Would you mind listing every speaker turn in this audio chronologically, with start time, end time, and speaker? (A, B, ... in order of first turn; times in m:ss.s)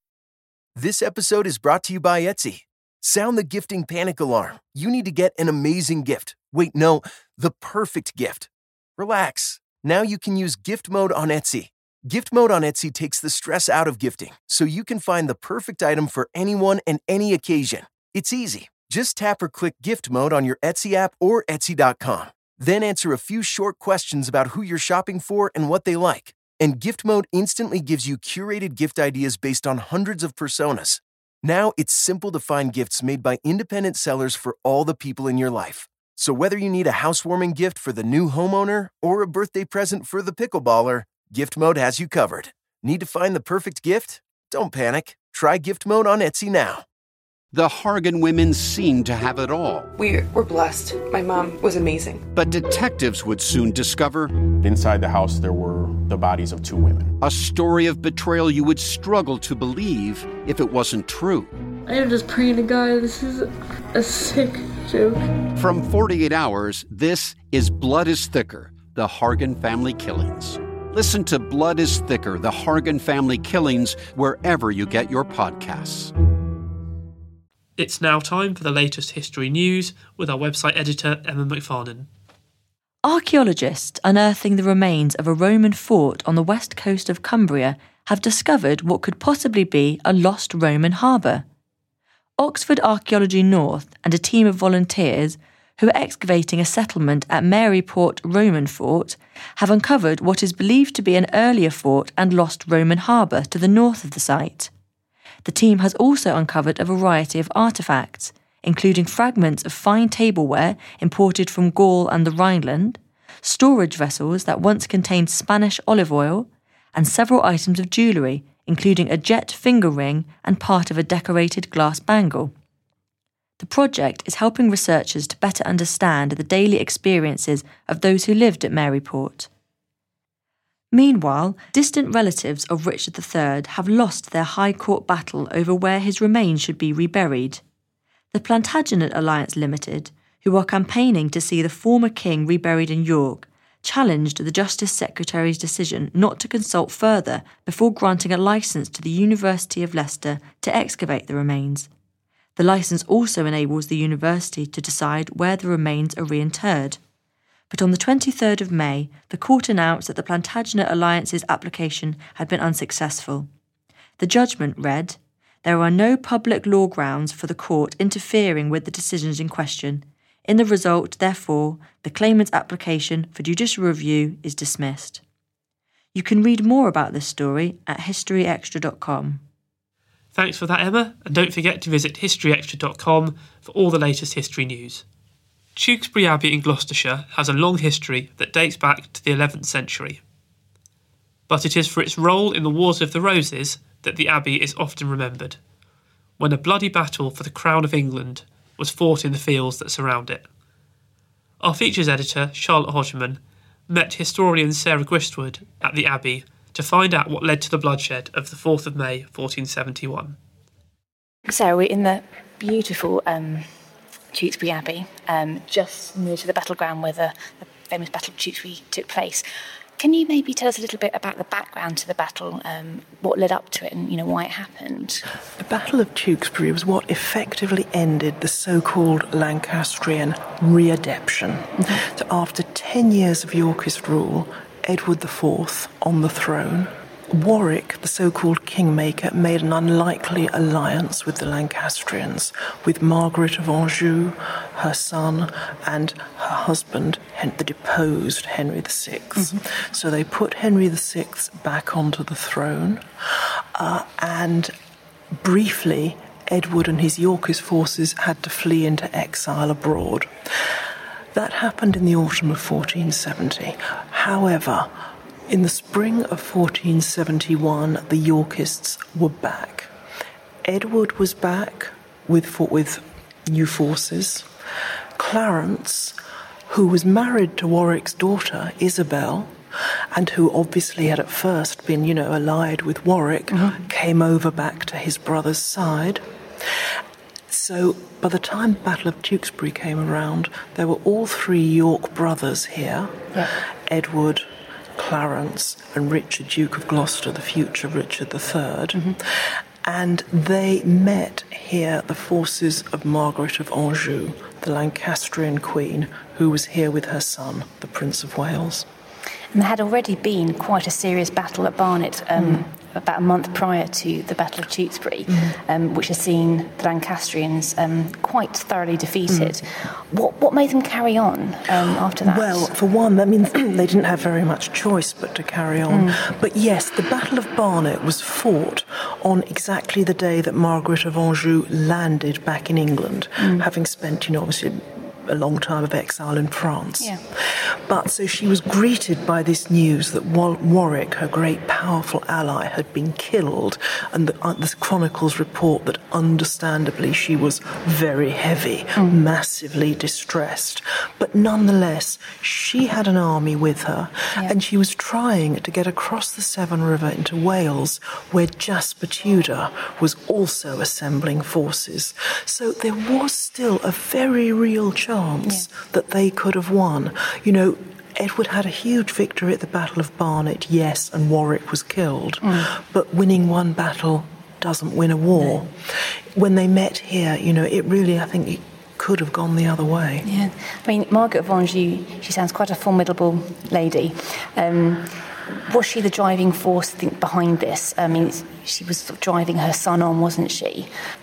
0:00.8-0:46.8 A
0:47.5-0:49.9 B
0:50.0-0:52.2 C
0:52.3-0:54.3 B
0:54.6-0:57.2 D
0:57.2-1:01.5 B
1:01.9-1:05.2 E
1:05.6-1:16.1 B
1:17.8-1:22.1 F
1:23.0-1:31.4 G
1:32.4-1:44.7 G
1:45.4-2:02.5 G
2:03.6-2:09.5 G
2:10.9-2:17.6 G
2:18.3-2:31.9 G
2:32.6-2:37.0 G
2:37.7-2:43.5 G
2:44.2-2:55.2 G
2:56.1-2:59.4 G
3:00.3-3:05.0 F
3:05.8-3:10.2 F
3:11.5-3:15.6 F
3:16.4-3:20.5 F
3:21.6-3:30.4 F
3:31.5-3:33.7 H
3:34.3-3:39.4 H
3:40.0-3:45.2 H
3:45.6-4:13.0 I
3:51.8-3:52.0 H
4:13.7-4:14.7 I
4:15.4-4:20.3 I
4:21.3-4:24.9 I
4:25.5-4:29.9 I
4:30.6-4:34.5 I
4:35.2-4:36.2 I
4:36.7-4:39.5 I
4:40.1-4:46.2 I
4:43.5-4:43.9 H
4:47.5-4:53.2 I
4:53.9-5:08.9 I
4:58.9-4:59.2 H
5:09.5-5:22.8 H
5:22.2-5:37.1 I
5:25.9-5:26.2 H
5:33.4-5:33.7 H
5:37.9-6:15.7 I
5:49.0-5:49.2 H
6:05.4-6:05.7 H
6:12.4-6:12.7 H
6:15.3-6:15.7 H
6:16.3-6:20.2 I
6:20.2-6:30.9 H